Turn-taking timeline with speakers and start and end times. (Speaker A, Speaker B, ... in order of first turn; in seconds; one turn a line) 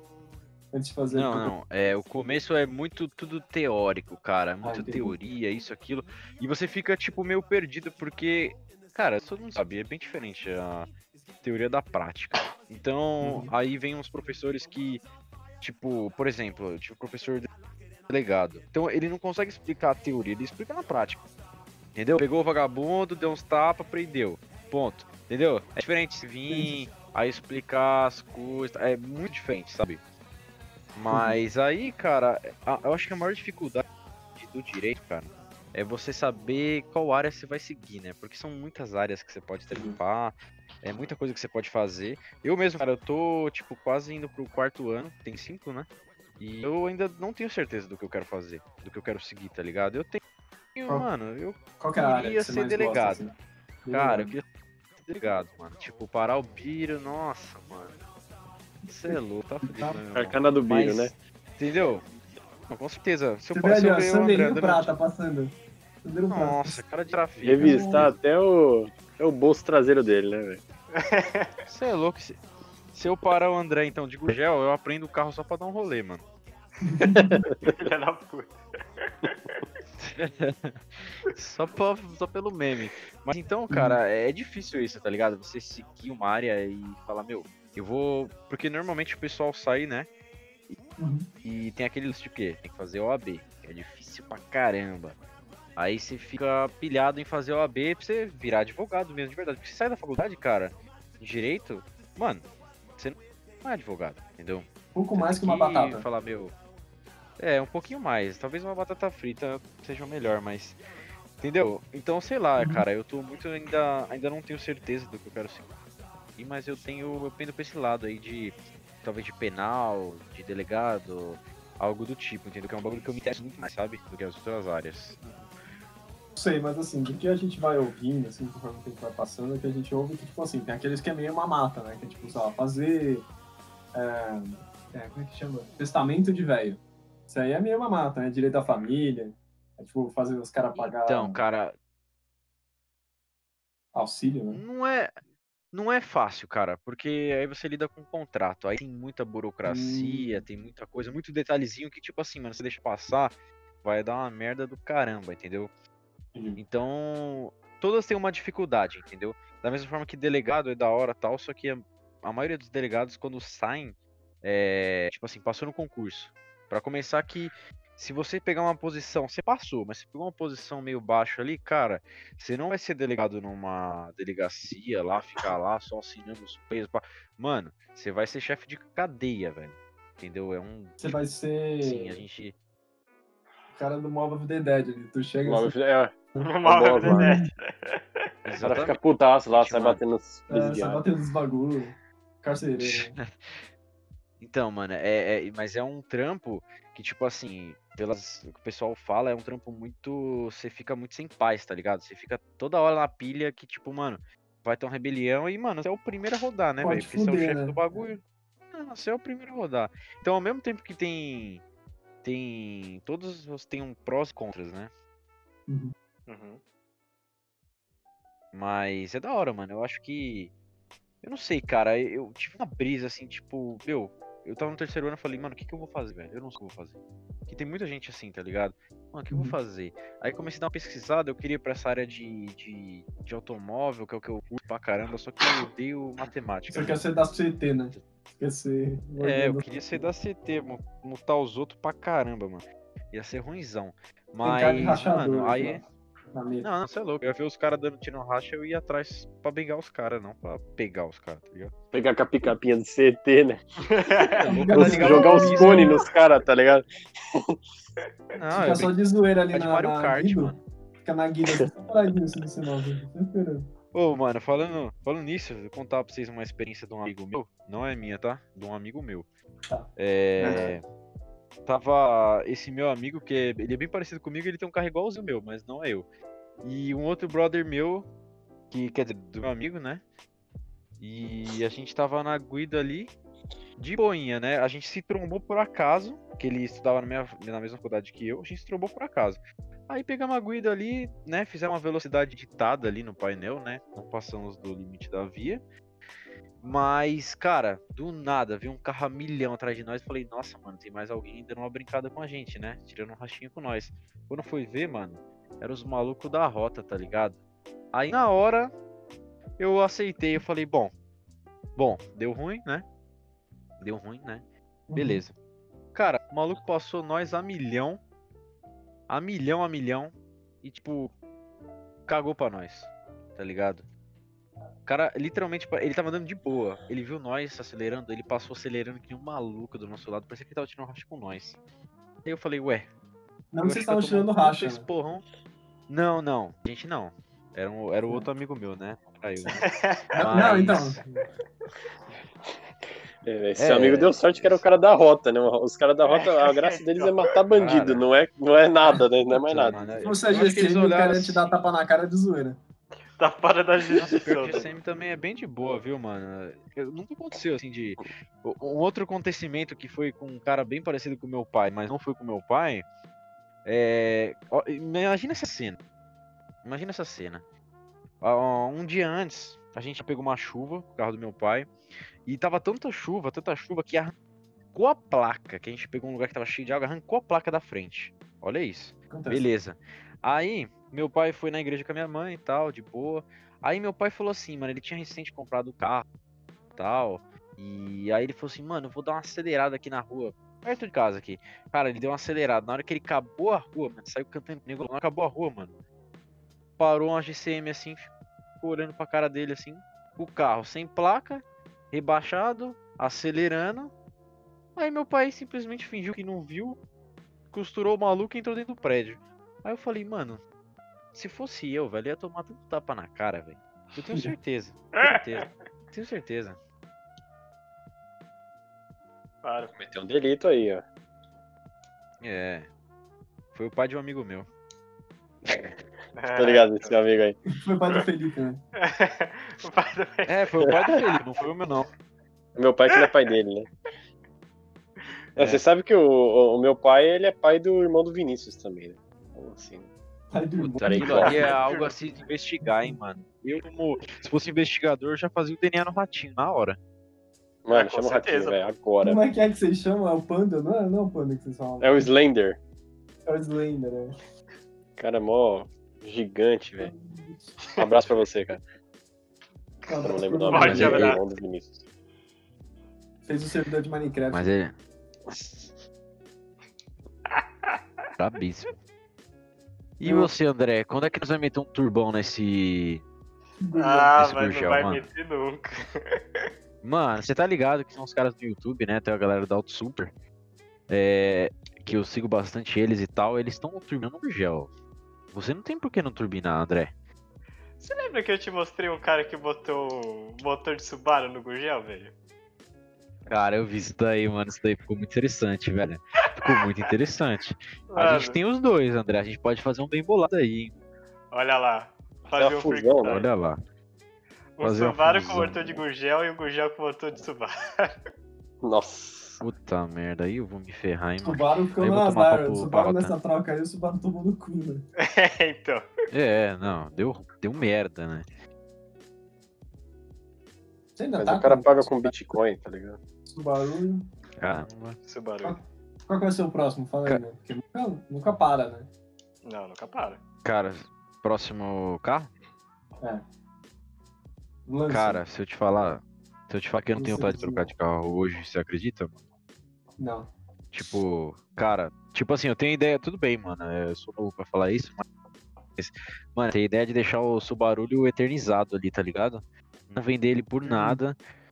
Speaker A: 0.7-1.5
Speaker B: 1.1-10.9
Speaker A: 4.6-5.2
Speaker B: 11.4-15.0
Speaker A: 13.2-13.5
Speaker B: 15.6-17.5
Speaker B: 18.1-21.3
Speaker B: 21.9-30.0
Speaker A: 26.5-26.8
Speaker B: 30.9-45.9
Speaker A: 31.1-31.4
Speaker A: 39.7-40.0
Speaker B: 46.4-50.2
Speaker B: 50.8-53.3
Speaker A: 51.8-54.4
Speaker B: 53.9-54.5
Speaker B: 55.0-58.0
Speaker B: 58.9-62.0
Speaker A: 59.1-60.0
Speaker C: 60.1-61.1
Speaker B: 62.7-64.9
Speaker A: 63.5-66.8
Speaker B: 66.3-68.2
Speaker C: 67.4-70.6
Speaker A: 67.6-68.1
Speaker D: 70.9-71.6
Speaker B: 71.7-72.4
Speaker B: 72.9-76.2
Speaker A: 76.8-77.4
Speaker C: 77.2-77.7
Speaker D: 77.6-78.6
Speaker D: 79.2-79.6
Speaker B: 80.0-90.1
Speaker A: 83.7-84.0
Speaker A: 91.0-91.3
Speaker B: 91.4-95.2
Speaker B: 95.8-106.5
Speaker A: 104.9-106.0
Speaker B: 107.4-110.8
Speaker B: 111.4-115.8
Speaker A: 112.6-112.8
Speaker B: 116.4-125.4
Speaker A: 126.4-133.3
Speaker A: 133.9-141.4
Speaker B: 140.8-141.8
Speaker A: 143.9-144.6
Speaker B: 144.5-145.1
Speaker B: 145.7-155.7
Speaker A: 149.7-150.4
Speaker A: 156.3-156.6
Speaker B: 156.6-181.2
Speaker A: 181.0-182.2
Speaker B: 181.8-182.6
Speaker A: 183.7-185.8
Speaker C: 185.4-187.4
Speaker A: 186.3-187.5
Speaker D: 186.4-188.3
Speaker B: 188.4-189.0
Speaker C: 188.6-191.0
Speaker B: 189.5-190.0
Speaker A: 190.5-193.2
Speaker B: 192.8-193.3
Speaker B: 194.4-208.2
Speaker A: 206.8-207.8
Speaker B: 208.7-211.6
Speaker B: 212.2-214.9
Speaker A: 215.7-215.9
Speaker D: 216.3-216.6
Speaker B: 218.5-220.5
Speaker B: 221.2-237.0
Speaker A: 229.3-229.6
Speaker A: 236.7-240.1
Speaker B: 239.2-245.8
Speaker A: 244.4-245.8
Speaker A: 246.3-246.7
Speaker B: 246.6-251.7
Speaker C: 251.9-253.6
Speaker D: 253.9-254.4
Speaker C: 254.2-257.6
Speaker A: 254.4-256.0
Speaker B: 254.5-256.0
Speaker B: 258.4-259.0
Speaker A: 258.5-260.5
Speaker B: 259.5-260.6
Speaker A: 261.1-263.7
Speaker B: 263.9-269.3
Speaker A: 269.7-270.7
Speaker B: 270.0-270.8
Speaker B: 271.7-276.1
Speaker B: 276.6-278.1
Speaker B: 278.7-280.0
Speaker B: 281.0-283.1
Speaker B: 283.8-295.6
Speaker B: 296.6-307.4
Speaker B: 307.9-308.7
Speaker B: 309.6-310.9
Speaker B: 311.8-312.9
Speaker B: 313.8-315.4
Speaker A: 314.9-315.2
Speaker B: 315.9-318.0
Speaker B: 319.1-321.1
Speaker B: 322.1-323.9
Speaker B: 324.9-331.6
Speaker B: 332.2-332.9
Speaker A: 333.5-334.9
Speaker B: 333.6-335.2
Speaker B: 335.9-341.0
Speaker D: 339.6-340.0
Speaker A: 340.1-341.3
Speaker C: 343.2-349.8
Speaker B: 343.6-344.6
Speaker D: 346.0-347.4
Speaker B: 347.5-348.0
Speaker B: 349.4-351.5
Speaker A: 350.0-352.6
Speaker D: 353.2-354.7
Speaker B: 353.9-362.9
Speaker B: 363.6-365.8
Speaker B: 366.6-367.4
Speaker B: 368.2-371.7
Speaker B: 372.3-374.1
Speaker B: 374.7-386.1
Speaker A: 379.1-379.5
Speaker B: 386.8-395.7
Speaker B: 396.8-403.9
Speaker B: 404.8-406.8
Speaker B: 407.5-410.4
Speaker B: 411.1-416.6
Speaker D: 419.4-419.8
Speaker C: 419.8-420.8
Speaker B: 422.2-422.7
Speaker B: 423.5-424.5
Speaker D: 426.2-427.0
Speaker C: 426.3-427.4
Speaker A: 427.5-428.6
Speaker D: 428.8-431.0
Speaker B: 430.3-431.9
Speaker C: 432.6-433.7
Speaker C: 435.4-439.9
Speaker B: 435.4-435.6
Speaker A: 440.3-441.5
Speaker B: 440.6-446.8
Speaker C: 440.8-441.6
Speaker D: 441.2-441.9
Speaker C: 447.6-449.2
Speaker D: 447.7-448.7
Speaker A: 449.0-452.1
Speaker C: 451.8-452.6
Speaker A: 453.3-454.1
Speaker C: 455.0-456.9
Speaker A: 456.8-457.6
Speaker C: 457.8-458.6
Speaker A: 459.9-461.0
Speaker C: 460.0-461.8
Speaker D: 460.5-461.2
Speaker B: 460.6-461.1
Speaker A: 463.3-464.4
Speaker B: 464.3-464.8
Speaker D: 467.3-467.7
Speaker B: 468.2-468.7
Speaker B: 470.0-473.0
Speaker A: 470.0-470.3
Speaker A: 473.6-474.1
Speaker D: 473.8-476.5
Speaker B: 474.2-475.1
Speaker B: 476.8-480.1
Speaker B: 480.9-484.7
Speaker B: 485.3-486.9
Speaker D: 487.8-492.1
Speaker B: 493.3-500.8
Speaker D: 497.9-498.4
Speaker D: 501.3-503.3
Speaker C: 502.4-503.2
Speaker B: 503.1-503.6
Speaker D: 504.6-508.0
Speaker B: 504.6-505.8
Speaker C: 508.6-509.4
Speaker B: 509.4-513.1
Speaker A: 511.2-514.9
Speaker D: 515.0-515.9
Speaker B: 516.1-518.3
Speaker A: 521.0-522.1
Speaker C: 521.2-523.0
Speaker A: 523.3-524.1
Speaker B: 524.4-525.0
Speaker D: 525.0-525.6
Speaker A: 525.4-528.9
Speaker D: 529.4-530.2
Speaker B: 530.4-532.3
Speaker A: 534.7-535.2
Speaker B: 534.9-539.2
Speaker A: 537.0-537.7
Speaker A: 540.0-540.3
Speaker B: 540.7-545.0
Speaker B: 545.8-551.2
Speaker A: 550.6-551.0